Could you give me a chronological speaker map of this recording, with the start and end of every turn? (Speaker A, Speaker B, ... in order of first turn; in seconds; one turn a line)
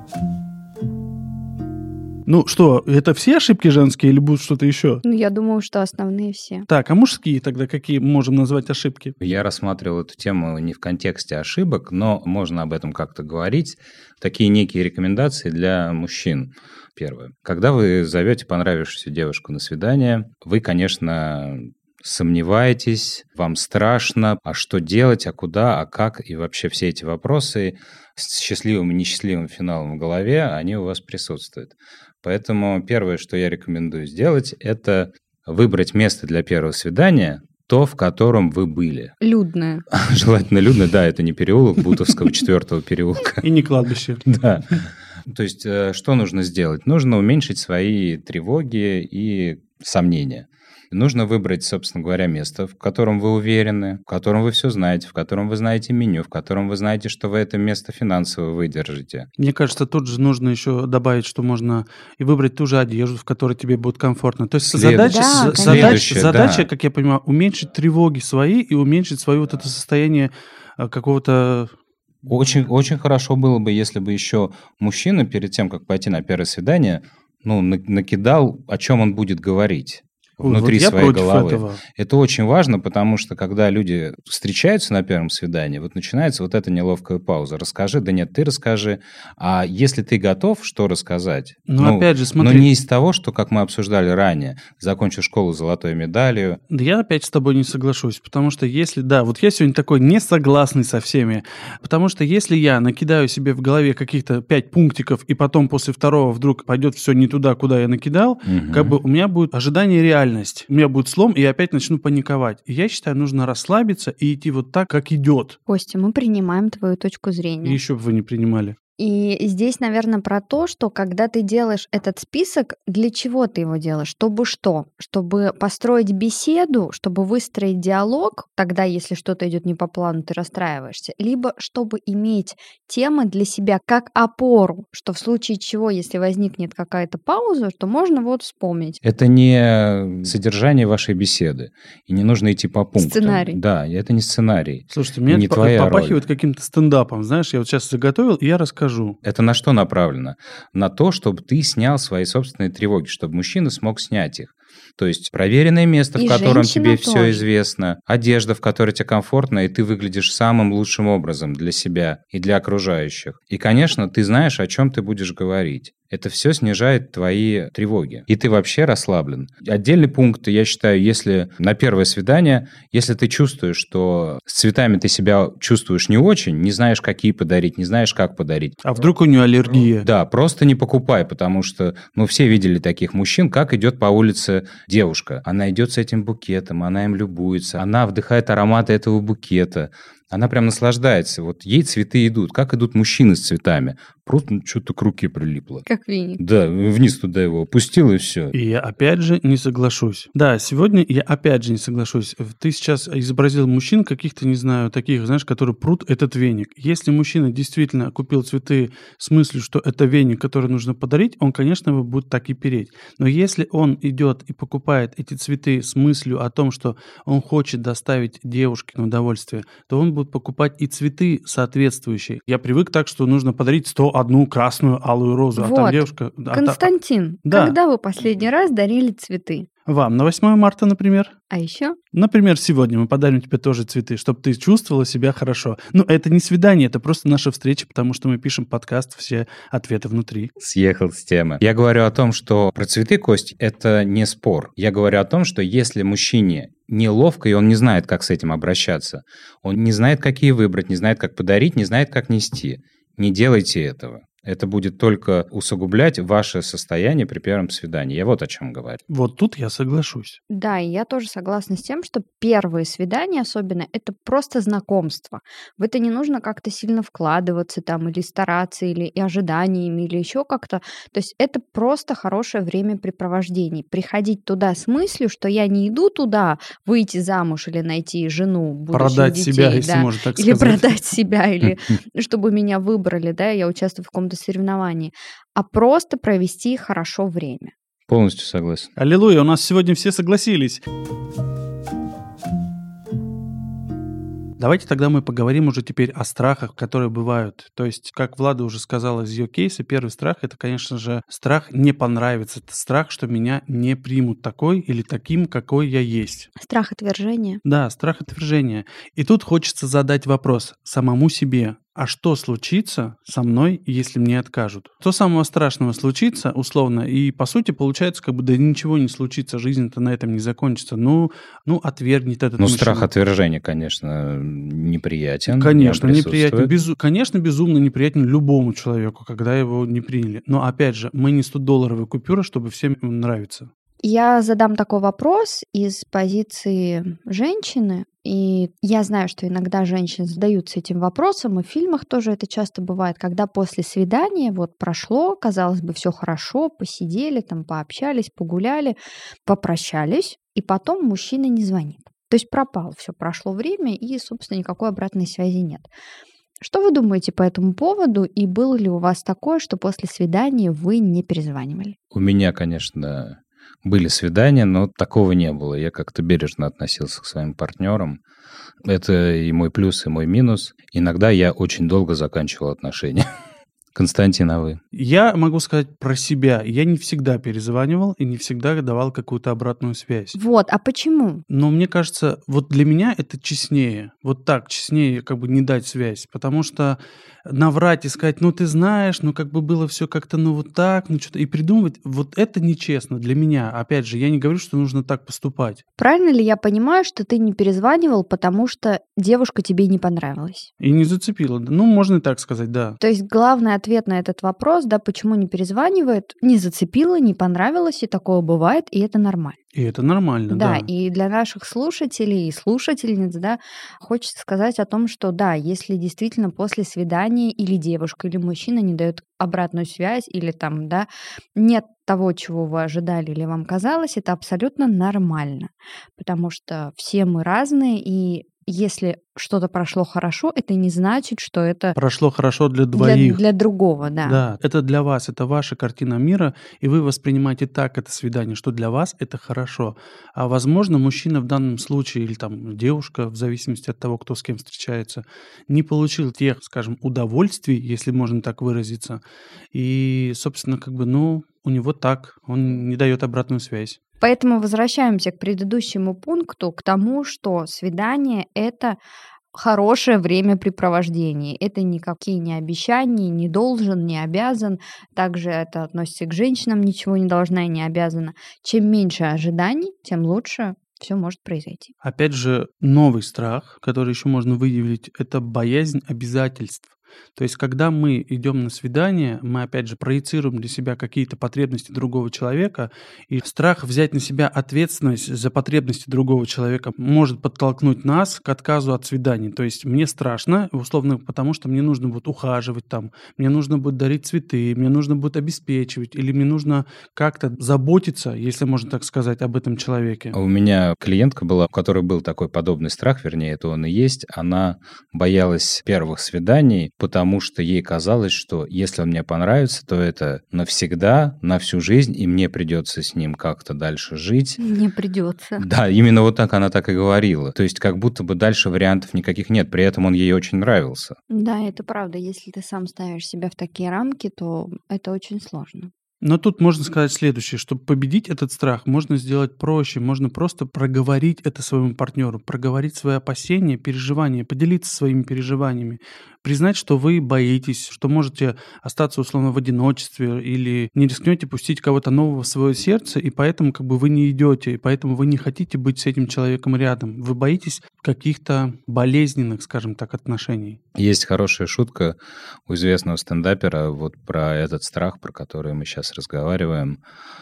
Speaker A: 2.3-5.0
Speaker B: 5.0-6.7
Speaker A: 6.7-9.2
Speaker C: 9.2-39.1
Speaker B: 39.2-39.8
Speaker C: 39.9-43.4
Speaker A: 43.4-44.2
Speaker C: 44.2-44.7
Speaker C: 45.2-59.3
Speaker A: 59.4-71.7
Speaker C: 64.7-66.7
Speaker B: 65.0-66.1
Speaker C: 72.2-96.6
Speaker A: 80.4-81.8
Speaker A: 91.7-92.7
Speaker A: 96.7-115.6
Speaker C: 108.4-109.0
Speaker B: 115.7-117.8
Speaker A: 117.6-118.8
Speaker B: 119.0-139.0
Speaker C: 139.0-146.2
Speaker B: 143.0-143.6
Speaker A: 144.9-149.2
Speaker C: 149.2-178.8
Speaker B: 156.2-157.4
Speaker A: 178.8-180.1
Speaker C: 180.0-195.8
Speaker B: 195.9-196.4
Speaker C: 196.4-198.5
Speaker A: 198.5-226.8
Speaker B: 225.6-229.7
Speaker A: 227.4-227.7
Speaker A: 229.8-231.3
Speaker B: 231.5-232.0
Speaker A: 232.1-240.5
Speaker C: 240.6-259.0
Speaker A: 259.1-260.4
Speaker B: 260.5-287.7
Speaker A: 278.9-280.9
Speaker C: 288.1-288.9
Speaker A: 288.9-290.8
Speaker A: 294.6-306.5
Speaker B: 306.6-307.6
Speaker A: 307.6-323.1
Speaker C: 322.6-326.7
Speaker A: 325.5-333.7
Speaker B: 334.0-355.9
Speaker B: 356.6-361.9
Speaker C: 362.1-368.2
Speaker C: 368.8-373.2
Speaker C: 373.9-374.8
Speaker A: 374.9-380.4
Speaker B: 380.3-381.4
Speaker A: 381.5-395.8
Speaker B: 396.0-400.7
Speaker A: 400.8-403.0
Speaker B: 403.0-409.6
Speaker A: 409.7-410.9
Speaker B: 410.5-431.9
Speaker A: 431.9-433.4
Speaker B: 432.9-434.4
Speaker A: 434.2-449.2
Speaker A: 449.7-454.0
Speaker B: 454.2-459.0
Speaker B: 459.5-471.9
Speaker A: 472.0-500.4
Speaker C: 500.3-514.6
Speaker B: 514.6-515.6
Speaker C: 515.6-521.1
Speaker B: 521.3-525.9
Speaker A: 526.2-550.8
Speaker C: 550.9-557.0